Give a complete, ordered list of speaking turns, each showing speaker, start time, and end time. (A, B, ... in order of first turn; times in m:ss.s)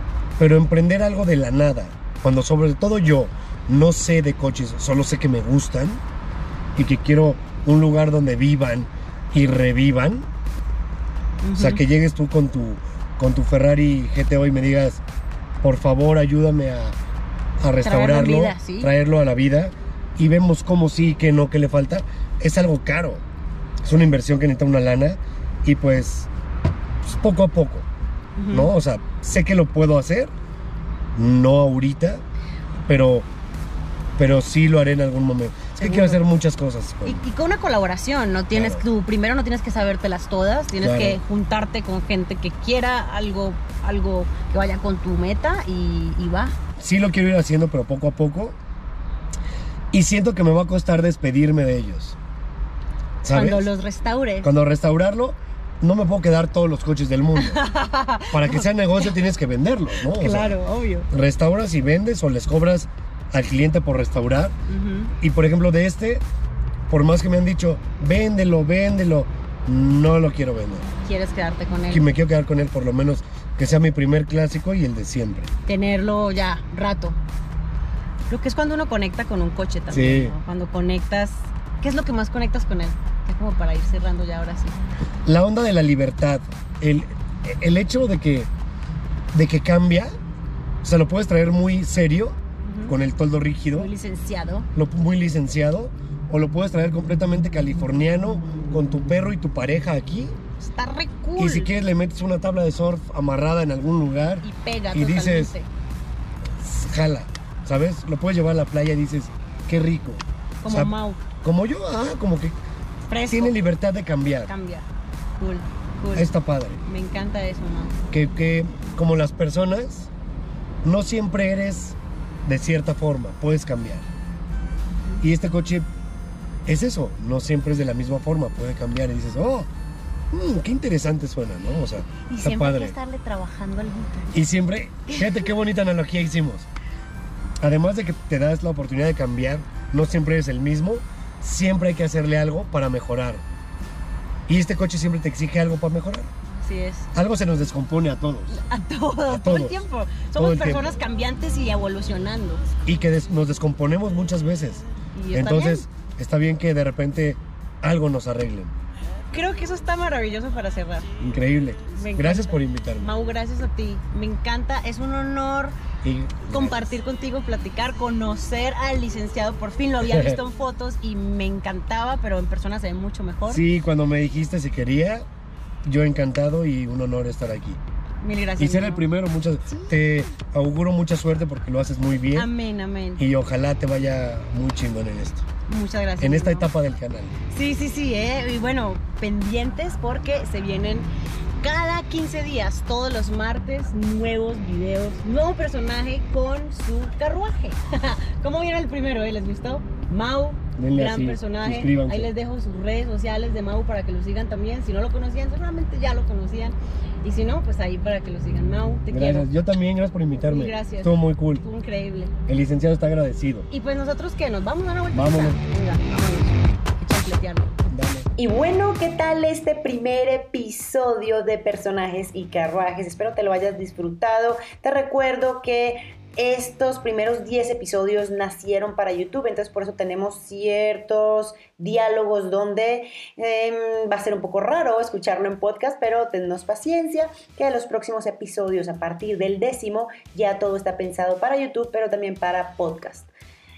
0:00.4-0:06.0 A
0:06.7-0:10.2 A
0:11.4-0:11.8 B
0:11.6-0:15.0 A
0:15.6-0:17.0 A
0:17.6-0:23.2 A
0:17.8-0:18.9 B
0:23.8-0:26.3 A
0:27.0-0:27.9 A
0:28.4-0:28.7 B
0:28.5-0:30.3 A
0:31.1-0:32.2 A
0:32.9-0:33.3 A
0:34.2-0:37.3 A
0:35.8-0:36.2 B
0:37.0-0:46.6 B
0:38.5-0:38.8 A
0:40.8-0:41.2 A
0:46.8-0:48.6 A
0:49.9-0:52.2 A
0:53.2-0:53.7 A
0:53.3-0:54.5 B
0:54.4-0:57.6 A
0:57.4-0:59.1 B
0:58.3-1:00.6 A
1:00.0-1:01.1 B
1:01.1-1:04.6 A
1:04.7-1:05.1 B
1:05.2-1:06.2 A
1:06.9-1:10.9 A
1:11.0-1:12.0 B
1:11.9-1:15.5 A
1:15.7-1:17.2 B
1:18.3-1:24.8 B
1:19.9-1:20.4 A
1:25.2-1:28.5 A
1:29.3-1:30.1 A
1:30.8-1:33.9 A
1:32.6-1:32.9 B
1:33.7-1:34.7 B
1:34.7-1:40.4 A
1:40.6-1:41.7 B
1:41.4-1:45.5 A
1:44.4-1:45.7 B
1:46.6-1:52.5 A
1:50.6-1:51.2 B
1:53.1-1:53.6 B
1:53.3-1:54.5 A
1:54.5-1:54.8 B
1:55.4-1:56.3 B
1:56.1-1:56.8 A
1:56.8-1:58.0 B
1:58.1-2:00.1 A
2:00.8-2:04.1 A
2:05.2-2:05.8 A
2:06.6-2:09.7 A
2:10.3-2:12.9 A
2:12.3-2:14.4 B
2:14.3-2:16.7 A
2:15.1-2:15.4 B
2:17.6-2:23.4 A
2:24.5-2:26.3 A
2:26.6-2:27.1 B
2:27.1-2:28.5 A
2:28.5-2:32.6 B
2:29.3-2:29.8 A
2:30.3-2:31.0 A
2:32.8-2:38.7 A
2:35.1-2:35.8 B
2:39.3-2:41.1 B
2:41.2-2:43.1 A
2:41.9-2:45.8 B
2:46.0-2:46.8 A
2:46.5-2:53.6 B
2:50.0-2:50.4 A
2:53.5-2:55.2 A
2:55.8-2:57.8 A
2:58.2-2:59.1 B
2:58.6-3:02.5 A
3:02.3-3:03.2 B
3:03.2-3:05.4 A
3:05.7-3:06.7 B
3:06.2-3:07.4 A
3:07.5-3:11.1 B
3:11.6-3:29.5 B
3:20.8-3:22.3 A
3:29.1-3:31.6 A
3:30.4-3:32.3 B
3:32.5-3:33.7 A
3:33.7-3:37.9 B
3:35.1-3:35.6 A
3:37.9-3:38.3 A
3:38.4-4:03.3 C